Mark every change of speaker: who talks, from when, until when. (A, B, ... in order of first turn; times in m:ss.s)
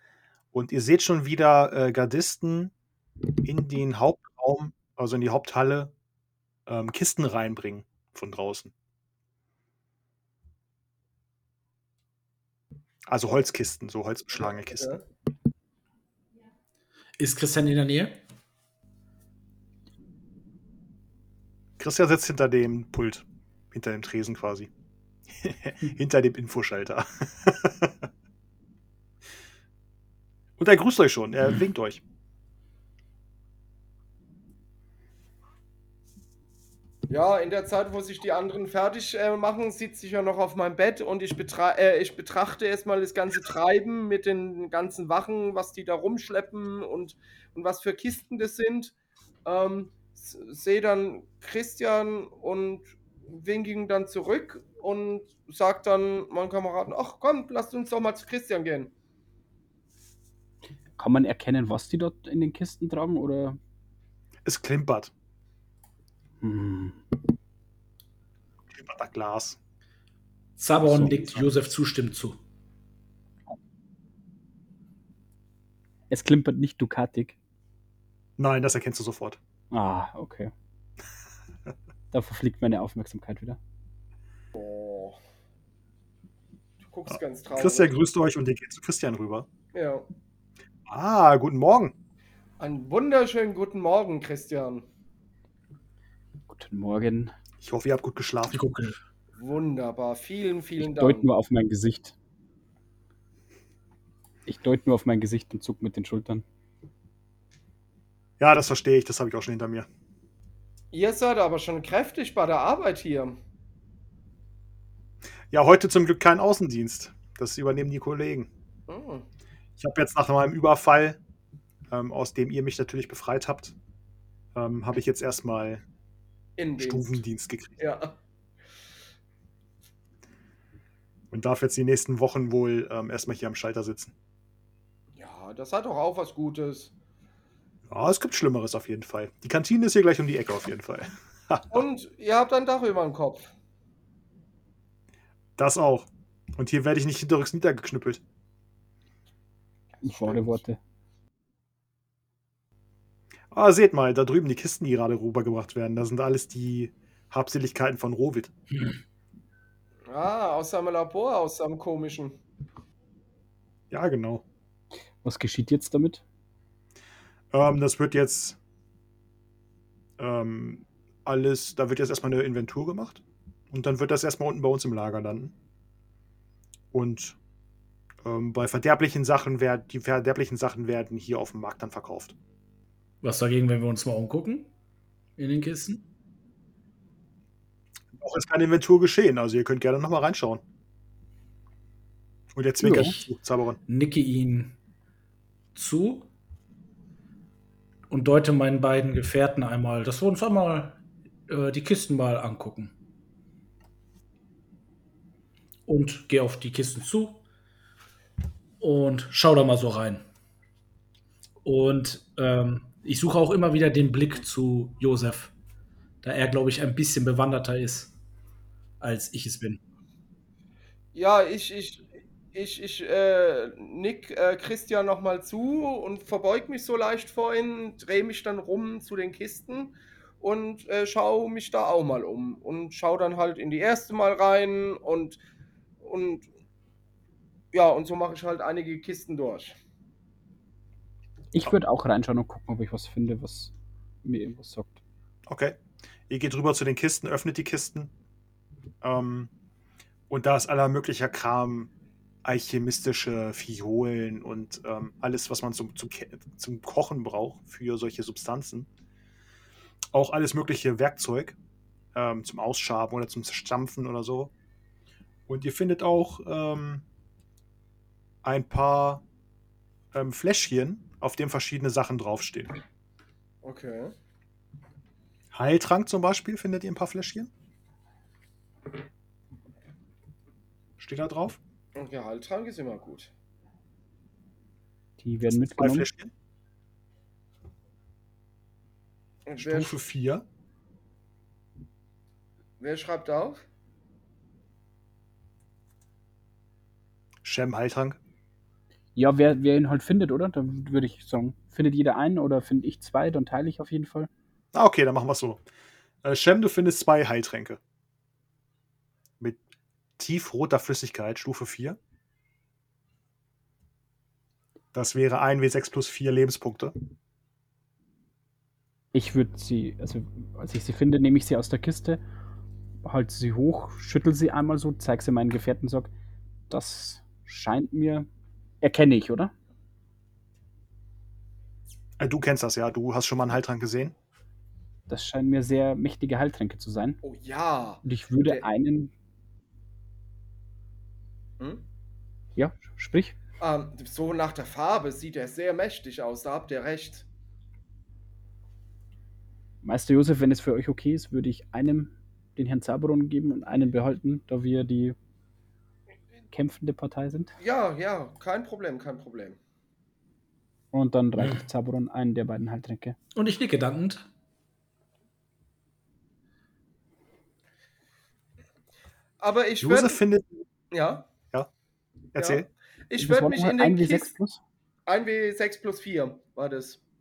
0:00.5-0:02.7 A
0:03.4-0:05.9 A
0:06.7-0:08.7 A
0:13.1-0:15.0 A
0:14.3-0:15.0 B
0:17.2-0:18.2 C
0:21.8-0:24.7 A
0:25.4-0:28.0 A
0:30.6-0:32.0 A
0:37.1-0:58.9 B
1:01.0-1:03.6 D
1:04.4-1:05.1 A
1:06.4-1:07.0 D
1:08.7-1:09.6 A
1:10.6-1:12.4 C
1:10.9-1:11.2 D
1:16.1-1:17.4 D
1:18.4-1:19.4 A
1:19.7-1:20.5 D
1:22.1-1:23.6 D
1:24.5-1:25.2 B
1:26.8-1:27.9 B
1:27.1-1:29.5 A
1:29.7-1:30.1 B
1:30.9-1:32.0 A
1:32.6-1:34.9 B
1:36.5-1:37.3 D
1:37.6-1:38.7 A
1:38.5-1:39.0 C
1:39.4-1:41.3 B
1:40.8-1:42.2 D
1:44.5-1:46.4 D
1:48.4-1:49.9 A
1:50.9-1:53.4 B
1:55.5-1:58.5 A
1:58.9-1:59.3 B
1:59.8-2:01.2 A
2:01.9-2:03.8 A
2:04.6-2:05.8 A
2:06.6-2:07.2 B
2:06.8-2:07.8 A
2:07.8-2:08.2 B
2:11.3-2:14.1 A
2:15.2-2:16.9 B
2:17.9-2:21.8 A
2:21.7-2:23.5 B
2:25.6-2:28.2 A
2:30.0-2:30.6 B
2:30.0-2:30.8 D
2:33.5-2:38.5 A
2:40.1-2:42.4 B
2:43.9-2:44.4 A
2:45.2-2:46.2 D
2:47.5-2:48.6 A
2:50.2-2:55.5 A
2:56.9-2:57.4 A
2:58.2-3:02.4 A
3:03.2-3:04.7 C
3:05.4-3:06.0 C
3:08.2-3:10.6 A
3:12.5-3:13.8 A
3:12.8-3:13.2 D
3:13.9-3:14.8 C
3:15.8-3:16.3 C
3:18.1-3:22.9 C
3:25.9-3:27.4 C
3:28.8-3:30.2 C
3:31.6-3:35.5 C
3:36.2-3:38.1 C
3:39.0-3:39.8 C
3:41.1-3:55.4 B
3:56.0-3:56.5 B
3:57.7-3:59.8 B
4:01.5-4:05.0 D
4:05.5-4:05.8 A
4:06.3-4:08.1 A
4:09.0-4:09.5 A
4:10.3-4:11.9 A
4:12.4-4:18.9 A
4:20.1-4:21.6 A
4:22.2-4:24.5 A
4:25.5-4:27.0 A
4:28.4-4:29.2 A
4:30.1-4:32.8 A
4:33.6-4:34.2 B
4:35.5-4:37.5 A
4:41.0-4:41.6 A
4:42.0-4:43.3 B
4:45.2-4:46.1 D
4:45.5-4:46.3 A
4:49.5-4:49.9 B
4:49.6-4:50.4 A
4:52.8-4:53.6 B
4:57.4-4:58.2 A
4:59.2-5:04.3 D
5:04.7-5:05.6 A
5:06.2-5:07.8 A
5:10.2-5:12.0 A
5:14.9-5:16.9 A
5:19.1-5:22.2 D
5:23.0-5:26.1 D
5:26.7-5:28.3 D
5:28.8-5:29.5 D
5:32.2-5:34.2 A
5:35.1-5:37.2 D
5:37.2-5:38.6 B
5:38.0-5:39.1 D
5:41.6-5:41.8 B
5:42.6-5:43.4 D
5:43.6-5:47.3 B
5:49.8-5:55.2 D
5:56.5-5:57.5 D
5:57.6-5:59.6 B
6:00.9-6:03.2 D
6:03.3-6:04.2 C
6:09.4-6:10.2 B
6:09.8-6:10.6 A
6:10.9-6:11.3 B
6:12.3-6:12.7 A
6:12.4-6:14.3 B
6:13.2-6:14.6 D
6:15.1-6:17.0 B